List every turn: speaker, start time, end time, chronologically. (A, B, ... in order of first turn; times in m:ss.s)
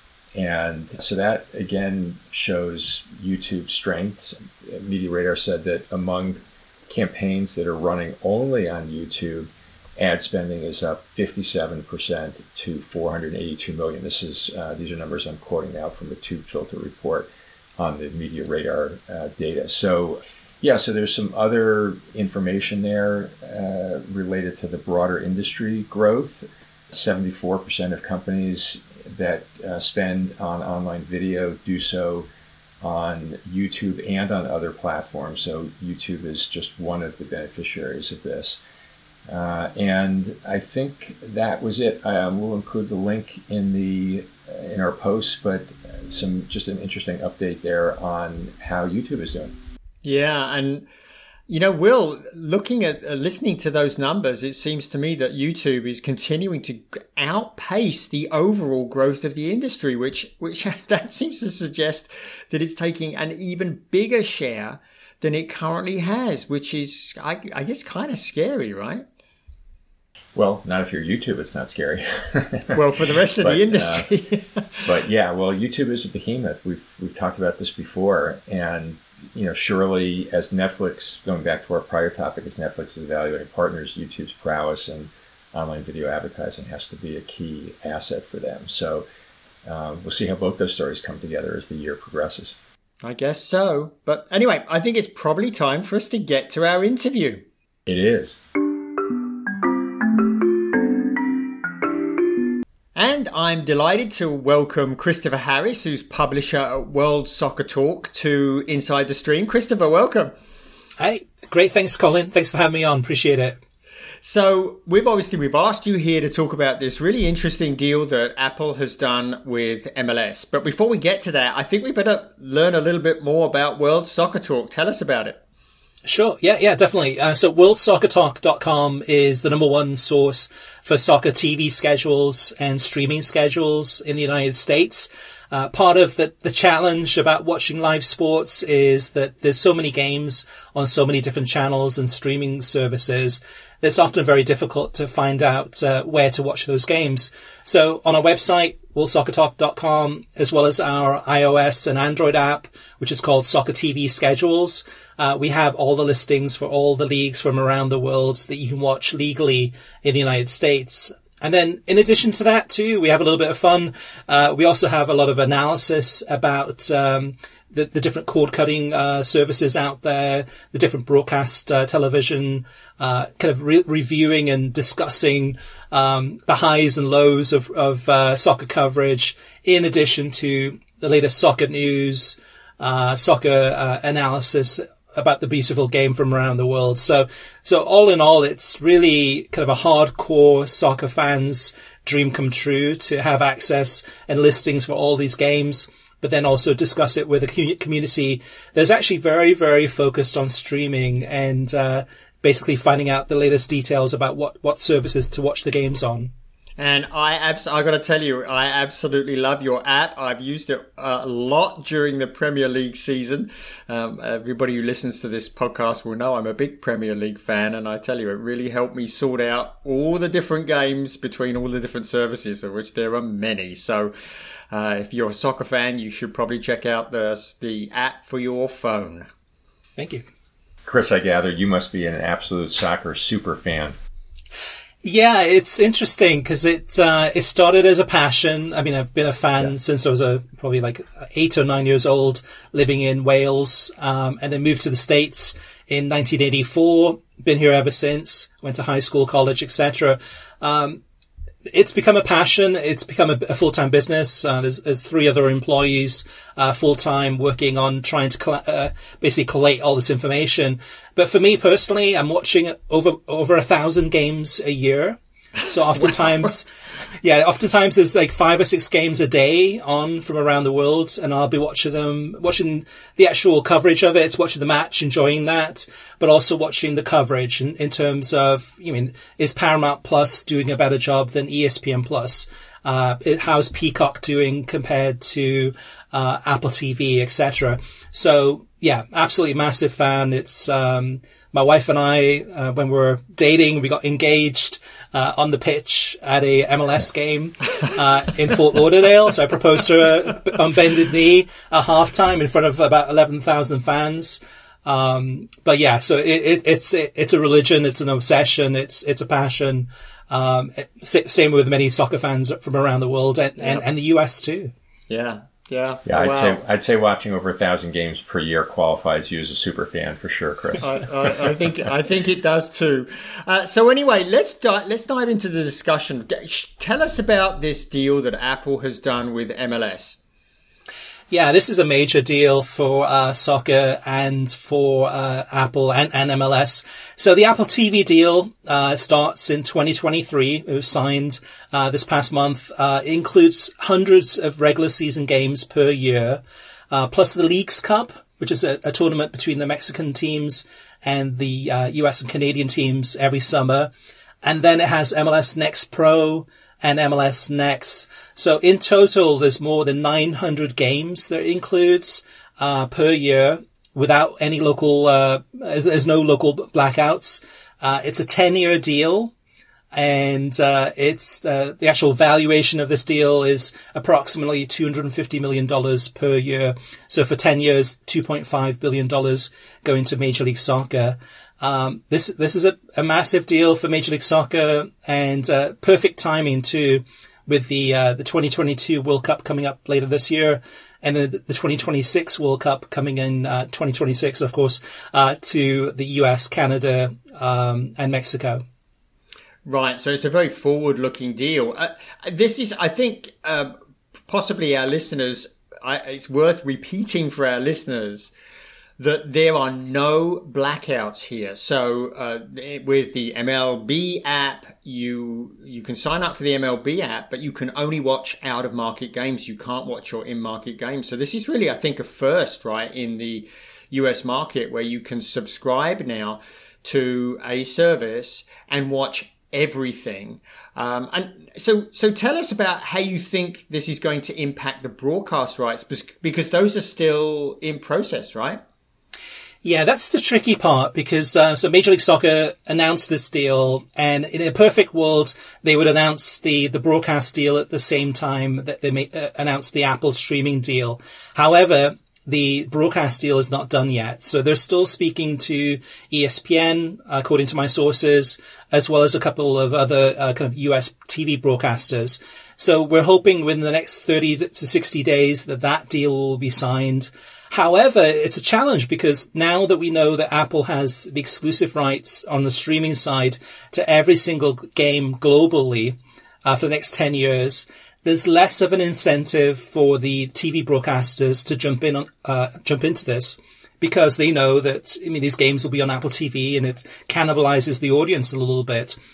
0:00.3-0:17.3 A
0:17.8-0:32.3 A
0:32.8-0:38.6 A
0:39.3-0:49.5 A
0:50.0-0:50.9 B
0:51.5-1:09.0 B
1:10.3-1:12.8 A
1:12.7-1:14.8 B
1:13.4-1:14.1 A
1:14.8-1:29.0 A
1:29.6-1:32.6 A
1:33.0-1:37.4 B
1:37.9-1:38.4 A
1:42.9-1:50.3 B
1:51.0-1:53.6 C
1:54.2-2:05.4 B
2:06.0-3:26.3 C
3:26.8-3:44.1 B
3:44.7-3:49.3 B
3:50.0-3:50.2 C
3:50.8-3:54.0 A
3:55.0-4:11.0 C
4:11.7-4:26.6 C
4:27.2-5:14.7 C
5:15.1-5:16.6 B
5:16.0-5:21.5 A
5:20.8-5:30.2 B
5:31.3-5:53.9 C
5:54.4-6:09.3 C
6:09.9-6:38.6 C
6:39.6-6:43.7 B
6:44.3-6:48.3 B
6:49.0-7:18.6 B
7:19.6-8:09.0 C